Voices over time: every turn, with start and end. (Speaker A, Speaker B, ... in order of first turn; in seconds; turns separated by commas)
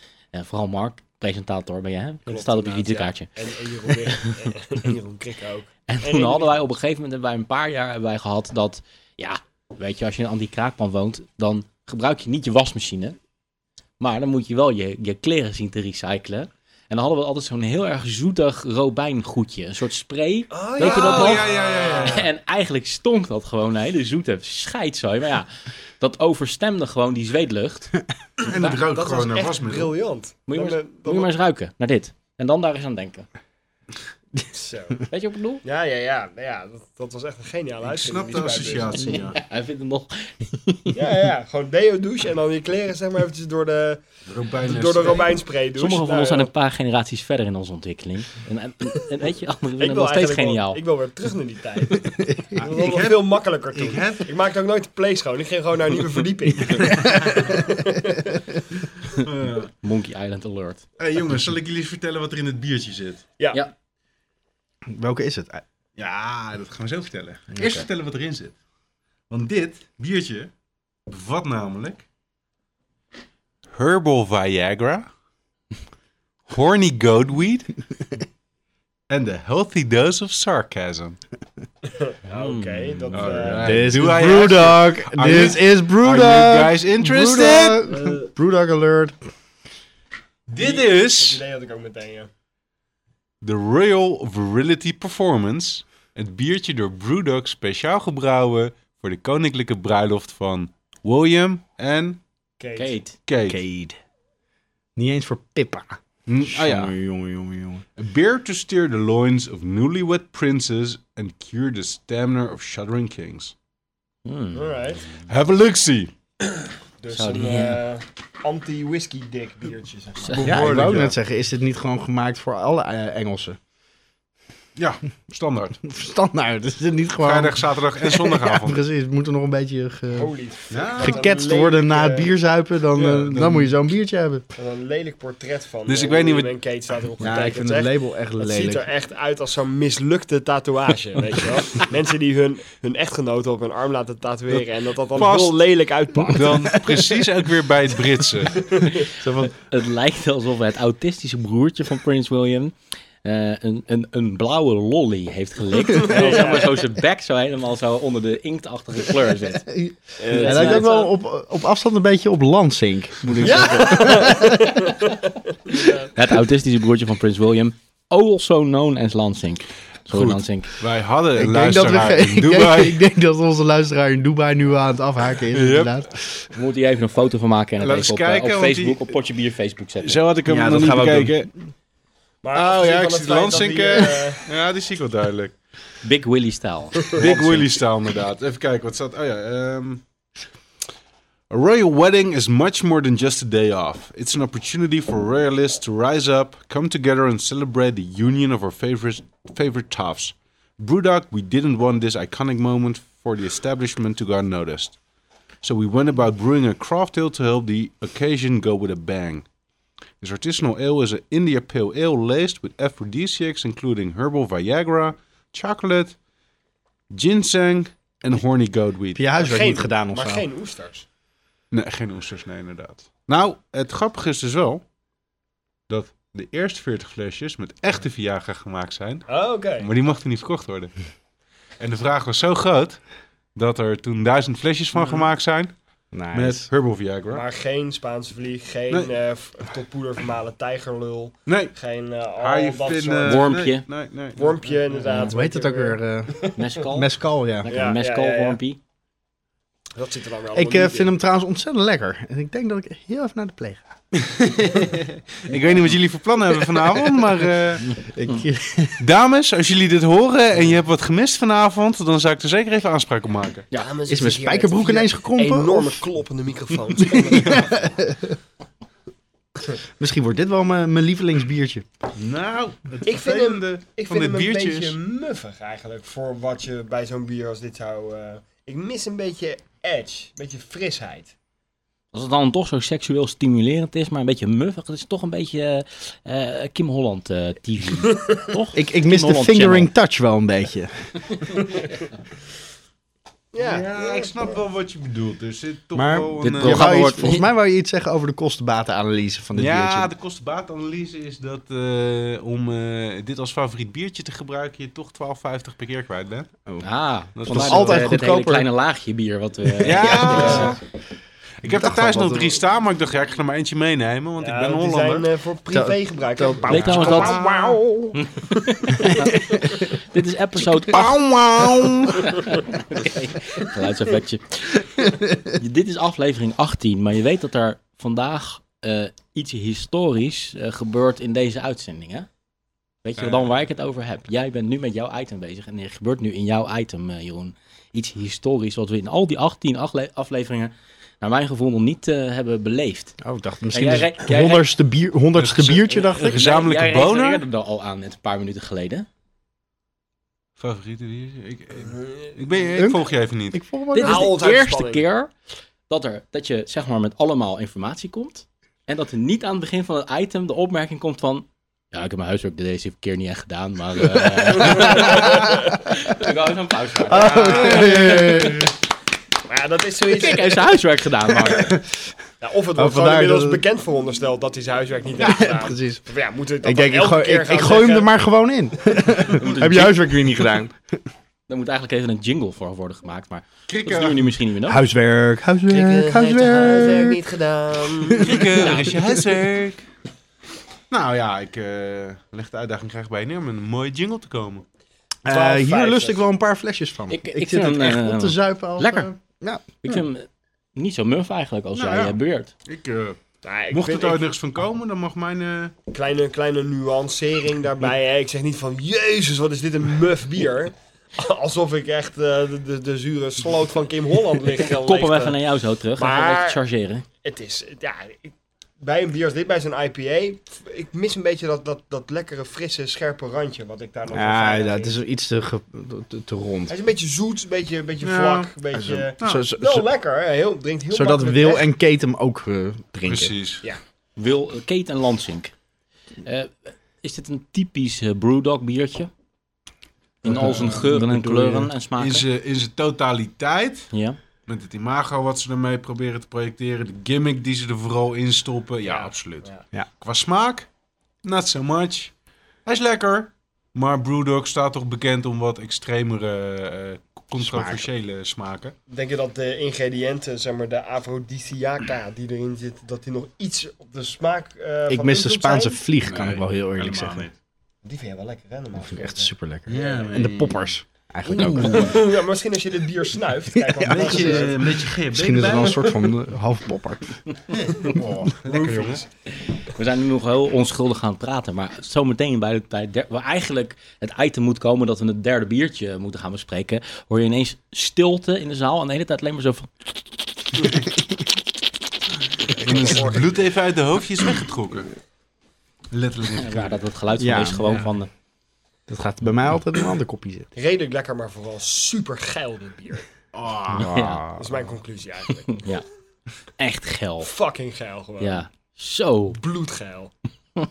Speaker A: 0.3-3.3, Speaker B: 2.3-6.6, Speaker A: 4.0-4.3, Speaker A: 5.9-13.2, Speaker A: 14.0-21.5, Speaker B: 20.5-22.3, Speaker C: 20.8-22.3, Speaker A: 22.0-25.5, Speaker A: 26.0-28.8, Speaker C: 28.4-29.9, Speaker B: 28.8-31.3, Speaker A: 30.5-33.3, Speaker B: 34.5-35.0, Speaker A: 35.1-35.6, Speaker B: 35.6-39.2, Speaker C: 37.8-39.4, Speaker A: 39.1-41.0, Speaker B: 40.9-44.0, Speaker C: 44.3-45.4, Speaker B: 44.6-46.5, Speaker A: 45.8-50.8, Speaker B: 49.8-58.4, Speaker D: 52.2-52.6, Speaker C: 52.6-54.3, Speaker C: 59.2-59.7, Speaker A: 59.8-60.8, Speaker C: 61.0-63.3, Speaker B: 63.4-63.6, Speaker D: 64.9-65.6, Speaker C: 66.0-68.6, Speaker C: 69.3-70.5, Speaker C: 71.1-72.0, Speaker C: 73.7-75.1, Speaker C: 76.5-77.7, Speaker C: 79.1-81.2, Speaker B: 81.9-83.9, Speaker A: 82.3-83.4, Speaker C: 83.1-87.8, Speaker D: 83.6-89.2, Speaker B: 88.0-88.2, Speaker C: 90.5-91.4, Speaker B: 90.6-92.3, Speaker C: 93.4-102.2, Speaker B: 102.6-103.0, Speaker A: 102.8-103.2, Speaker C: 103.3-103.6, Speaker D: 103.5-104.0, Speaker D: 105.0-107.8, Speaker C: 106.3-107.0, Speaker C: 108.0-113.5, Speaker A: 114.3-114.8, Speaker B: 114.5-115.1, Speaker C: 115.2-116.1, Speaker B: 117.0-121.0, Speaker A: 117.1-117.8, Speaker C: 120.4-121.2, Speaker D: 120.4-123.6, Speaker C: 124.8-125.8, Speaker D: 125.9-130.3, Speaker C: 127.2-128.8, Speaker B: 130.1-132.3, Speaker C: 130.7-131.3, Speaker D: 131.0-134.4, Speaker C: 132.9-133.8, Speaker B: 134.6-146.8, Speaker C: 135.9-136.5, Speaker D: 137.2-138.9, Speaker C: 145.2-145.6, Speaker C: 146.2-148.6, Speaker B: 148.6-149.0, Speaker D: 149.2-149.5, Speaker A: 149.4-159.7, Speaker B: 155.9-156.8, Speaker D: 159.7-164.6, Speaker B: 160.2-161.0, Speaker A: 160.3-161.1, Speaker B: 163.4-166.1, Speaker A: 166.2-170.7, Speaker C: 170.1-173.0, Speaker D: 171.4-176.1, Speaker C: 175.5-176.0, Speaker A: 176.5-180.2, Speaker C: 177.8-179.1, Speaker C: 180.0-181.5, Speaker D: 180.5-181.5, Speaker B: 182.4-184.4, Speaker C: 182.5-185.6, Speaker A: 186.0-187.7, Speaker C: 187.2-190.0, Speaker C: 191.5-205.0, Speaker C: 205.6-209.4, Speaker C: 210.2-216.2, Speaker C: 217.1-219.2, Speaker D: 219.2-220.4, Speaker B: 219.4-221.1, Speaker C: 221.7-224.8, Speaker C: 225.9-230.9, Speaker B: 229.3-229.9, Speaker C: 231.8-233.0, Speaker C: 233.6-235.8, Speaker D: 236.1-236.7, Speaker C: 236.3-237.4, Speaker B: 237.3-243.5, Speaker C: 241.5-241.8, Speaker C: 242.4-244.6, Speaker A: 243.2-243.8, Speaker B: 244.3-246.5, Speaker D: 245.2-247.7, Speaker A: 246.6-248.8, Speaker B: 247.7-248.6, Speaker B: 249.9-251.1, Speaker D: 250.5-254.5, Speaker C: 255.4-257.9, Speaker D: 258.1-259.0, Speaker C: 259.0-263.7, Speaker B: 263.7-267.8, Speaker D: 264.1-266.0, Speaker D: 267.1-268.4, Speaker D: 270.0-271.9, Speaker C: 272.1-275.0, Speaker B: 273.1-281.3, Speaker A: 282.1-289.9, Speaker D: 288.7-290.9, Speaker B: 293.5-294.5, Speaker C: 293.6-296.9, Speaker D: 295.9-300.1, Speaker A: 296.4-297.5, Speaker C: 299.6-306.5, Speaker A: 306.8-310.7, Speaker C: 307.4-308.1, Speaker D: 307.4-308.7, Speaker D: 309.8-310.7, Speaker C: 309.8-310.8, Speaker C: 311.6-315.3, Speaker D: 311.6-312.6, Speaker B: 314.4-317.8, Speaker D: 315.7-318.1, Speaker A: 316.7-317.4, Speaker C: 316.8-317.8, Speaker A: 318.2-321.1, Speaker D: 319.0-319.8, Speaker D: 320.9-322.2, Speaker C: 320.9-322.1, Speaker A: 322.3-332.3, Speaker A: 333.0-343.2, Speaker D: 343.2-346.5, Speaker A: 343.7-344.7, Speaker C: 345.4-347.4, Speaker A: 346.2-349.1, Speaker C: 350.6-353.6, Speaker B: 351.8-352.4, Speaker D: 352.8-354.3, Speaker A: 353.9-355.3, Speaker B: 354.0-355.1, Speaker A: 355.9-368.5, Speaker D: 367.1-368.7, Speaker B: 369.5-370.7, Speaker A: 370.1-371.7, Speaker B: 372.4-378.1, Speaker D: 372.8-373.6, Speaker D: 375.2-376.0, Speaker D: 376.6-380.9, Speaker A: 379.4-379.8, Speaker A: 381.5-384.8, Speaker C: 383.7-384.3, Speaker D: 384.7-387.2, Speaker B: 385.7-388.7, Speaker C: 388.2-389.9, Speaker C: 390.9-394.6, Speaker D: 395.2-399.6, Speaker B: 395.3-396.2, Speaker A: 397.1-399.1, Speaker A: 399.8-402.5, Speaker C: 401.8-403.2, Speaker B: 403.4-404.2, Speaker C: 403.7-405.8, Speaker B: 405.9-415.4, Speaker A: 414.6-417.1, Speaker B: 416.0-416.6, Speaker B: 417.2-425.0, Speaker D: 424.1-426.8, Speaker B: 426.7-431.7, Speaker C: 428.0-428.5, Speaker D: 428.8-429.9, Speaker D: 430.9-433.3, Speaker C: 433.1-433.6, Speaker A: 434.2-435.5, Speaker A: 436.2-439.1, Speaker A: 440.2-442.2, Speaker D: 440.2-441.7, Speaker C: 440.4-440.8, Speaker C: 442.0-443.9, Speaker A: 443.9-444.2, Speaker C: 444.5-449.5, Speaker B: 448.8-449.6, Speaker C: 450.0-450.7, Speaker C: 451.2-452.1, Speaker C: 452.7-458.8, Speaker D: 457.4-457.9, Speaker B: 458.9-465.8, Speaker D: 464.9-467.3, Speaker C: 466.0-467.3, Speaker B: 467.8-470.2, Speaker D: 468.9-472.0, Speaker C: 469.7-470.8, Speaker B: 471.3-474.7, Speaker D: 473.7-477.2, Speaker C: 473.9-475.9, Speaker C: 477.5-479.0, Speaker B: 478.5-479.1, Speaker A: 479.8-489.7, Speaker B: 492.6-493.4, Speaker C: 492.6-494.9, Speaker C: 495.9-496.8, Speaker A: 496.4-498.1, Speaker D: 497.2-497.8, Speaker D: 498.9-500.5, Speaker B: 500.6-503.1, Speaker C: 503.3-503.9, Speaker D: 503.7-504.5, Speaker A: 503.8-504.2, Speaker B: 504.4-505.7, Speaker A: 505.6-505.9, Speaker A: 506.6-507.3, Speaker B: 507.2-508.4, Speaker A: 508.2-509.4, Speaker B: 509.3-510.1